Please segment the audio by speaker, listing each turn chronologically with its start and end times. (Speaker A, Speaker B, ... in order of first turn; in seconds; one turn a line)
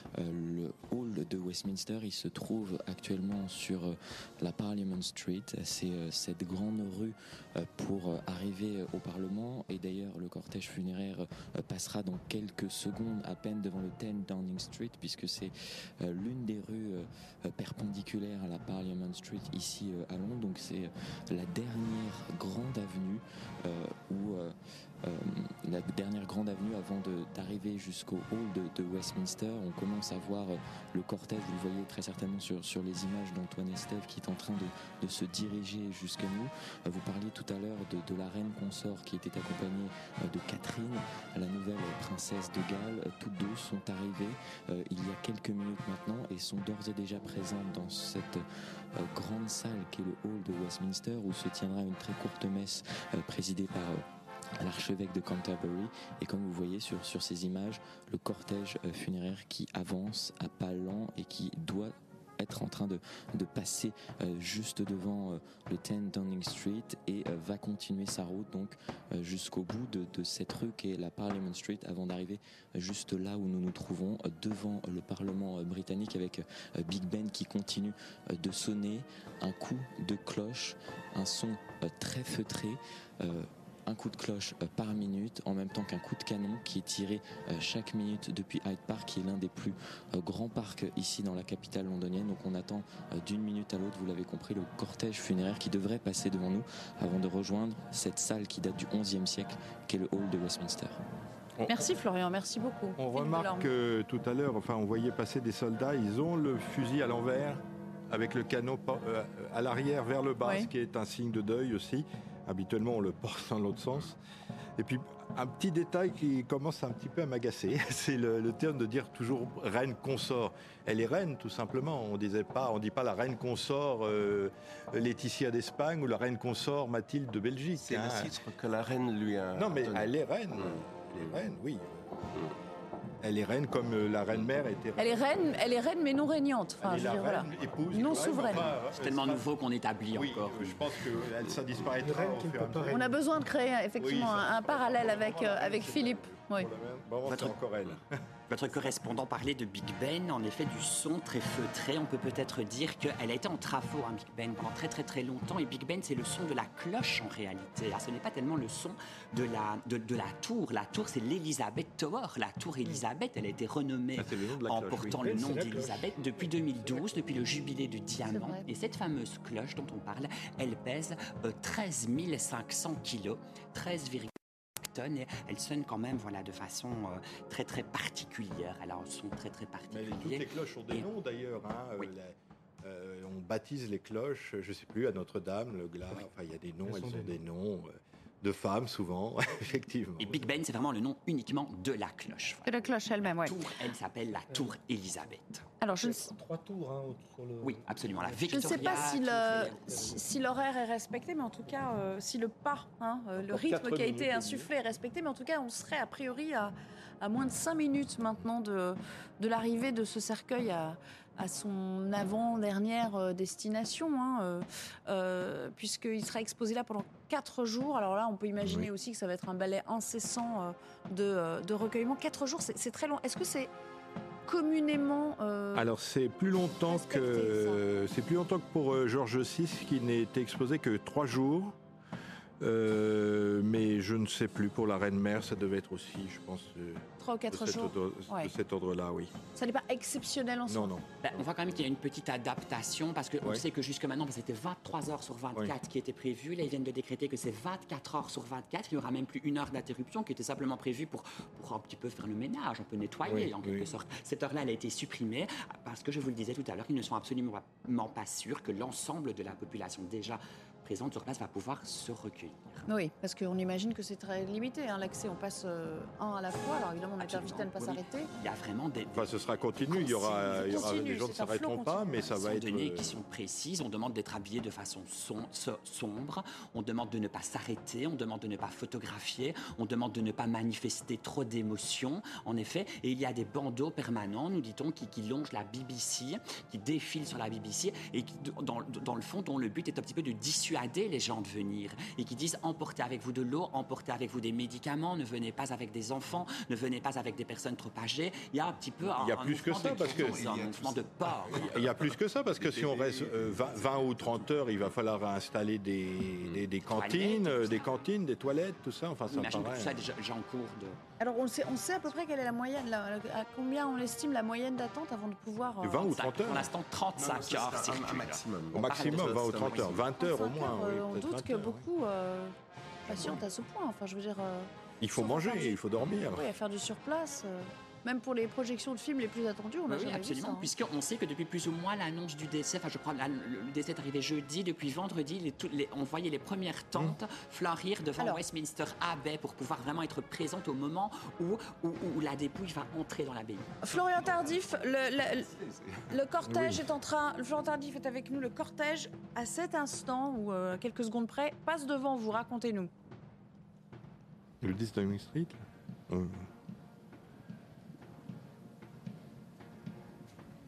Speaker A: 0.2-48.4
Speaker A: 49.0-54.0
Speaker A: 54.6-101.0
Speaker B: 101.6-101.9
Speaker C: 101.7-103.7
Speaker B: 103.0-114.2
Speaker C: 110.4-110.7
Speaker B: 114.8-128.3
Speaker D: 127.8-131.4
Speaker B: 129.6-132.1
Speaker B: 133.2-135.5
Speaker C: 135.0-138.8
Speaker B: 136.8-139.5
Speaker E: 138.8-141.0
Speaker B: 140.1-143.2
Speaker D: 141.4-141.8
Speaker F: 142.0-143.2
Speaker C: 142.9-146.7
Speaker B: 144.0-148.1
Speaker E: 147.3-147.5
Speaker E: 148.5-181.1
Speaker B: 164.2-165.6
Speaker F: 165.0-167.7
Speaker C: 168.2-168.7
Speaker B: 179.9-190.5
Speaker F: 186.8-187.4
Speaker E: 190.2-195.7
Speaker C: 192.7-193.6
Speaker F: 194.5-194.8
Speaker C: 195.8-196.3
Speaker F: 196.0-200.3
Speaker E: 197.6-200.2
Speaker C: 198.5-223.7
Speaker B: 203.4-204.7
Speaker F: 203.6-204.6
Speaker B: 218.6-218.9
Speaker C: 224.5-225.9
Speaker B: 225.7-231.8
Speaker C: 226.9-227.8
Speaker B: 232.6-239.3
Speaker C: 237.2-238.5
Speaker C: 239.6-240.9
Speaker B: 240.7-241.8
Speaker E: 241.2-262.9
Speaker B: 253.3-253.9
Speaker C: 262.9-268.3
Speaker E: 267.2-269.4
Speaker B: 269.1-273.2
Speaker C: 269.9-272.5
Speaker E: 272.3-301.9
Speaker B: 299.1-300.5
Speaker D: 299.9-304.9
Speaker B: 301.6-310.0
Speaker E: 306.9-307.9
Speaker E: 309.3-311.0
Speaker C: 311.2-316.3
Speaker B: 315.8-316.7
Speaker E: 316.1-320.0
Speaker D: 317.2-320.0
Speaker B: 318.7-321.9
Speaker C: 320.2-322.6
Speaker C: 323.1-330.7
Speaker B: 323.1-323.4
Speaker B: 325.0-326.5
Speaker E: 329.9-343.8
Speaker C: 343.8-345.5
Speaker D: 343.9-346.1
Speaker C: 346.1-352.9
Speaker B: 346.4-346.9
Speaker B: 354.6-356.5